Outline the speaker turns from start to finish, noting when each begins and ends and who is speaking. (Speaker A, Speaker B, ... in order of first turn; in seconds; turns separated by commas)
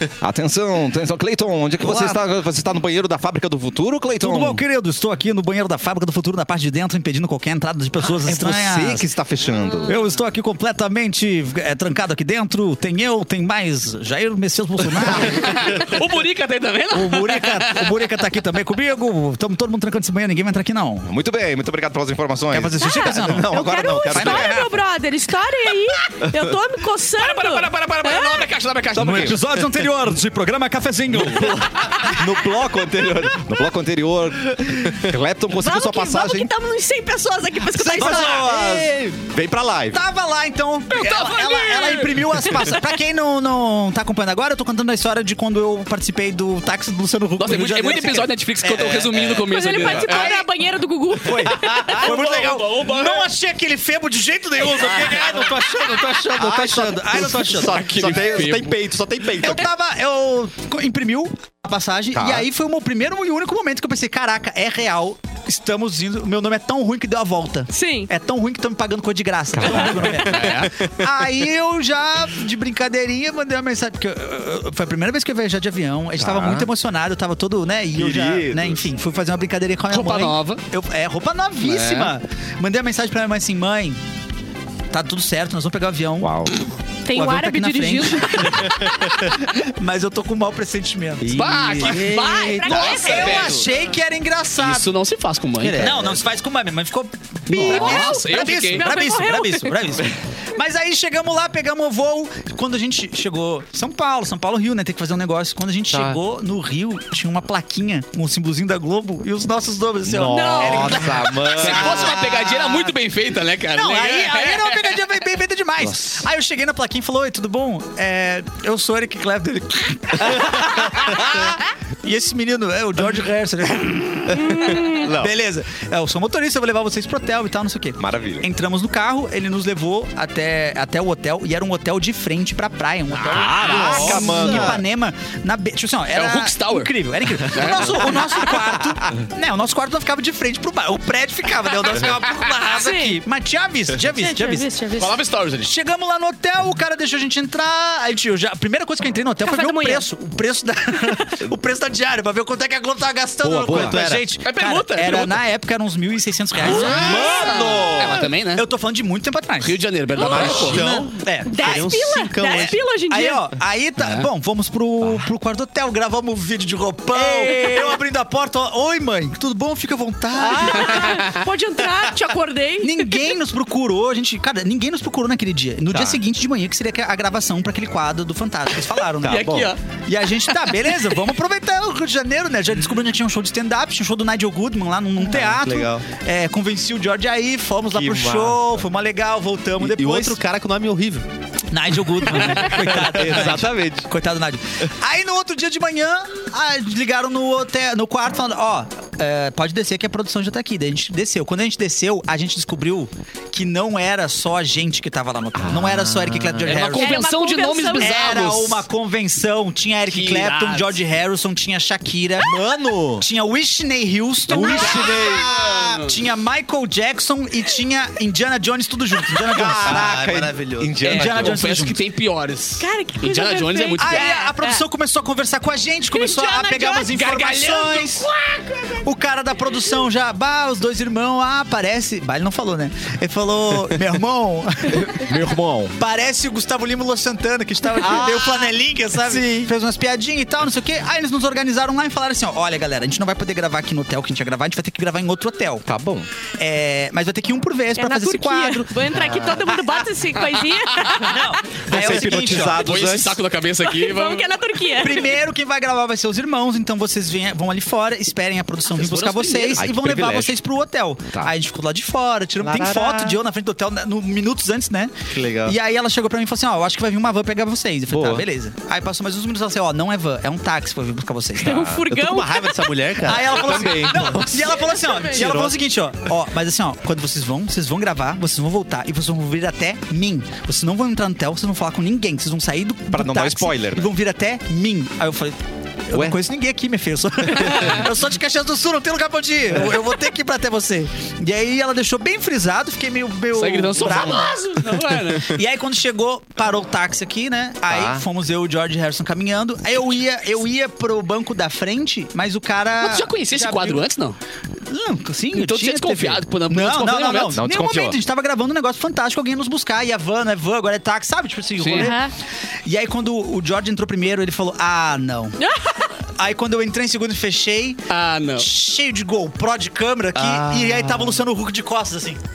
Speaker A: 0.2-4.6, Speaker B: 1.8-2.2, Speaker B: 4.2-9.1, Speaker A: 8.2-9.9, Speaker B: 9.8-15.8, Speaker C: 15.2-17.9, Speaker B: 16.9-21.1, Speaker A: 21.1-24.6, Speaker B: 22.5-24.7, Speaker D: 22.8-28.5, Speaker C: 27.2-29.4, Speaker B: 28.9-31.9, Speaker A: 28.9-29.4, Speaker A: 31.1-36.5, Speaker D: 35.5-38.5, Speaker A: 37.7-40.0, Speaker B: 37.8-39.0, Speaker B: 39.9-49.3, Speaker C: 40.9-42.1, Speaker C: 47.4-50.3, Speaker D: 49.4-52.1, Speaker B: 50.0-50.5, Speaker B: 51.2-58.5, Speaker A: 51.6-52.0, Speaker C: 52.0-53.3, Speaker A: 55.0-59.7, Speaker C: 57.7-58.7, Speaker B: 59.4-84.0, Speaker A: 62.1-62.5, Speaker D: 67.7-68.1, Speaker A: 69.5-70.2, Speaker C: 70.2-70.8, Speaker A: 76.2-76.7, Speaker A: 77.9-78.9, Speaker C: 79.9-80.6, Speaker C: 81.7-82.1, Speaker B: 84.9-86.5, Speaker A: 86.2-86.5, Speaker D: 87.0-89.2, Speaker B: 87.1-94.9, Speaker E: 91.3-93.6, Speaker C: 91.3-93.6, Speaker D: 92.0-93.5, Speaker C: 94.6-95.9, Speaker E: 95.6-96.2, Speaker B: 95.8-112.9, Speaker C: 97.5-98.9, Speaker D: 97.7-99.8, Speaker A: 105.9-106.2, Speaker A: 110.0-112.2, Speaker D: 110.3-111.2, Speaker C: 111.5-114.9, Speaker B: 113.7-144.7, Speaker A: 115.8-116.2, Speaker A: 120.3-121.3, Speaker D: 124.4-125.0, Speaker A: 124.9-125.3, Speaker A: 128.0-128.5, Speaker C: 133.3-134.5, Speaker A: 133.3-134.8, Speaker C: 136.1-138.4, Speaker D: 142.7-143.2, Speaker D: 144.1-145.1, Speaker C: 145.0-145.7, Speaker B: 145.6-159.8, Speaker D: 149.4-150.0, Speaker A: 153.4-154.0, Speaker E: 153.7-154.2, Speaker C: 154.4-155.4, Speaker A: 156.7-158.2, Speaker C: 156.7-158.6, Speaker C: 159.6-161.0, Speaker D: 160.2-160.7, Speaker A: 160.2-160.9, Speaker E: 160.2-162.8, Speaker B: 160.3-161.9, Speaker D: 161.4-163.5, Speaker B: 163.1-171.2, Speaker C: 164.0-164.2, Speaker D: 167.3-167.9, Speaker D: 170.5-173.2, Speaker C: 170.8-171.4, Speaker B: 172.8-190.4, Speaker A: 175.9-176.2, Speaker A: 179.2-179.7, Speaker C: 179.3-179.8, Speaker E: 185.3-186.0, Speaker A: 187.9-188.7, Speaker E: 189.8-191.2, Speaker B: 191.7-207.2, Speaker A: 192.7-194.1, Speaker A: 205.6-206.8, Speaker C: 206.6-208.8, Speaker D: 206.9-208.2, Speaker B: 208.0-212.6, Speaker C: 210.1-211.0, Speaker A: 212.4-213.2, Speaker B: 213.2-220.3, Speaker A: 214.5-215.5, Speaker C: 214.5-216.2, Speaker D: 214.6-215.2, Speaker A: 219.5-221.6, Speaker E: 219.8-220.9, Speaker B: 221.0-222.0, Speaker C: 221.0-224.4, Speaker D: 222.8-224.8, Speaker B: 224.0-228.3, Speaker D: 226.2-226.5, Speaker C: 226.4-228.8, Speaker B: 229.0-235.3, Speaker A: 234.9-235.9, Speaker B: 235.9-245.8, Speaker A: 238.0-238.7, Speaker A: 245.9-246.3, Speaker B: 246.6-249.0, Speaker D: 247.9-251.6, Speaker C: 250.5-251.3, Speaker B: 251.2-252.9, Speaker A: 251.8-253.4, Speaker C: 252.6-254.8, Speaker D: 253.8-255.3, Speaker B: 254.9-272.0, Speaker C: 258.9-259.8, Speaker A: 259.8-260.6, Speaker E: 262.6-263.4, Speaker E: 265.3-265.7, Speaker A: 268.1-268.4, Speaker D: 271.6-272.9, Speaker A: 271.7-272.0, Speaker E: 272.1-274.6, Speaker B: 273.2-294.6, Speaker A: 273.4-274.5, Speaker D: 275.0-275.3, Speaker E: 275.4-275.7, Speaker A: 283.1-284.1, Speaker A: 286.1-286.4, Speaker C: 293.5-295.5, Speaker B: 295.4-304.1, Speaker A: 297.9-298.2, Speaker C: 303.0-304.4, Speaker B: 304.8-312.3, Speaker C: 305.5-307.6, Speaker A: 307.5-308.2, Speaker C: 311.8-312.1, Speaker D: 311.9-312.3, Speaker B: 312.9-315.6, Speaker D: 315.6-316.1, Speaker B: 316.4-318.0, Speaker C: 318.1-318.7, Speaker B: 318.6-322.4, Speaker E: 320.4-321.3